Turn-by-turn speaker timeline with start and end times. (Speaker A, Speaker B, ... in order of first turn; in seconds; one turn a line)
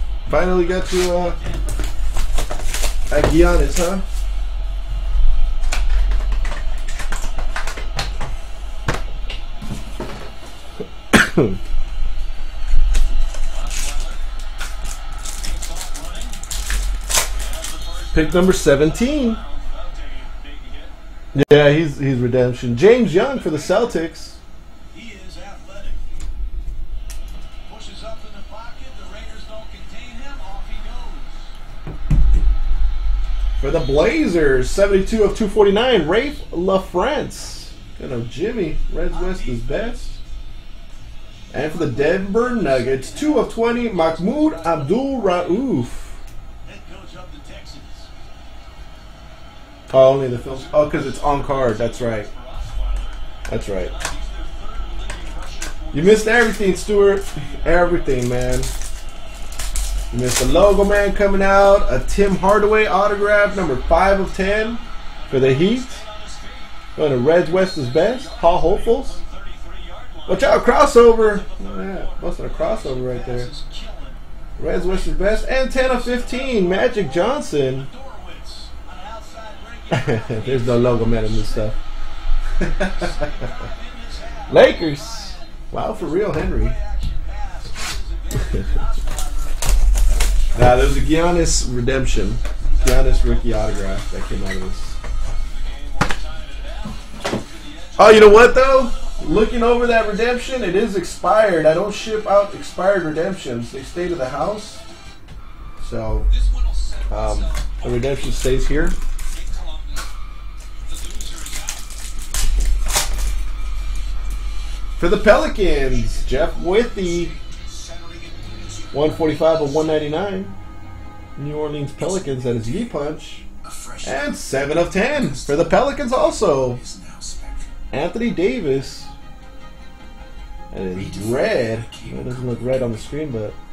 Speaker A: 0.3-1.4
Speaker A: 3.1-4.0
Speaker A: 11.1-11.6
Speaker B: 13.7-14.0
Speaker B: 15.5-16.4
Speaker B: 17.4-20.9
Speaker A: 18.1-19.4
Speaker A: 21.3-24.4
Speaker B: 24.9-26.0
Speaker B: 27.7-31.4
Speaker A: 33.6-40.2
Speaker A: 41.5-46.2
Speaker B: 46.6-48.0
Speaker A: 49.9-52.3
Speaker B: 50.7-53.2
Speaker A: 53.5-53.9
Speaker B: 54.0-55.9
Speaker A: 55.9-58.7
Speaker A: 60.1-66.0
Speaker A: 67.0-69.2
Speaker B: 67.6-70.3
Speaker A: 70.3-73.5
Speaker B: 72.8-74.2
Speaker A: 74.6-77.9
Speaker B: 78.1-81.5
Speaker A: 79.9-81.8
Speaker A: 82.6-83.5
Speaker B: 83.2-85.4
Speaker A: 84.5-86.8
Speaker B: 86.8-89.5
Speaker A: 90.5-95.0
Speaker B: 95.6-96.9
Speaker B: 97.5-97.9
Speaker A: 98.0-104.8
Speaker A: 105.8-106.3
Speaker A: 107.1-109.0
Speaker B: 109.6-109.9
Speaker B: 110.9-111.5
Speaker A: 115.0-117.4
Speaker A: 118.9-120.5
Speaker A: 121.4-123.4
Speaker A: 124.0-126.8
Speaker B: 127.2-127.5
Speaker A: 127.9-129.1
Speaker A: 130.7-133.6